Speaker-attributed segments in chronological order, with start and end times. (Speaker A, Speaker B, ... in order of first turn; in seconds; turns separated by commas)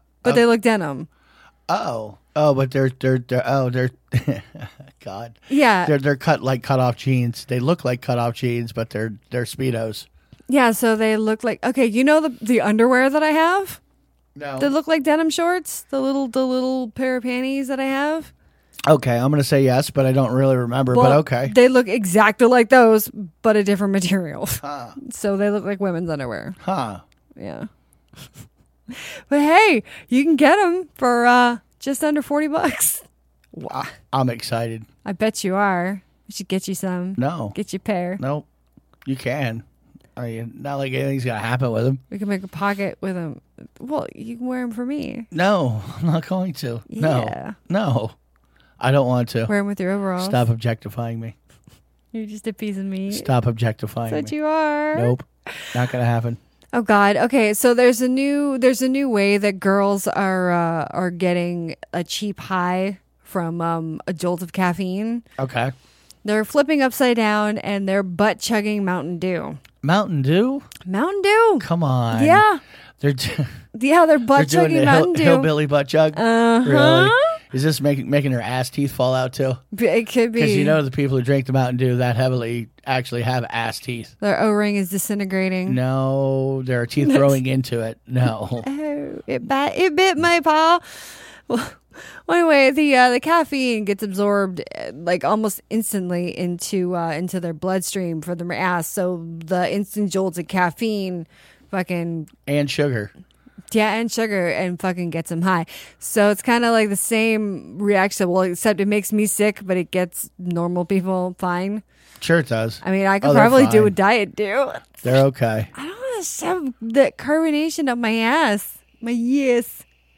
Speaker A: 0.2-1.1, Speaker B: 1.7-10.1, Speaker A: 5.5-5.9, Speaker A: 10.5-13.8, Speaker B: 14.3-14.7, Speaker A: 14.6-18.3, Speaker B: 18.9-21.5, Speaker A: 20.9-26.6, Speaker B: 24.6-25.0, Speaker B: 26.6-27.0, Speaker A: 27.4-27.7, Speaker A: 28.9-33.9, Speaker B: 33.7-34.9, Speaker A: 35.0-38.2, Speaker B: 37.2-37.5, Speaker B: 38.2-38.4, Speaker B: 39.0-39.6, Speaker B: 40.1-42.0, Speaker A: 42.1-45.3, Speaker B: 45.3-48.1, Speaker A: 46.9-47.6, Speaker B: 48.8-49.5, Speaker A: 49.5-50.4, Speaker B: 50.2-51.3, Speaker A: 52.1-53.3, Speaker B: 53.1-54.3, Speaker A: 54.1-55.7, Speaker B: 54.9-56.4, Speaker A: 56.7-65.2, Speaker B: 65.4-65.7, Speaker A: 66.2-69.6, Speaker B: 69.8-70.7, Speaker A: 70.8-72.6, Speaker B: 71.6-72.4, Speaker B: 73.0-73.6, Speaker A: 73.7-75.5, Speaker B: 74.3-79.6, Speaker A: 76.1-77.4, Speaker A: 79.7-80.8, Speaker B: 80.3-84.1, Speaker A: 84.2-85.8, Speaker B: 85.7-88.7, Speaker A: 87.0-87.4, Speaker A: 88.6-102.3, Speaker B: 102.5-103.1, Speaker A: 103.7-111.8, Speaker B: 112.2-114.0, Speaker A: 112.8-115.0, Speaker B: 115.0-115.7, Speaker A: 115.7-119.8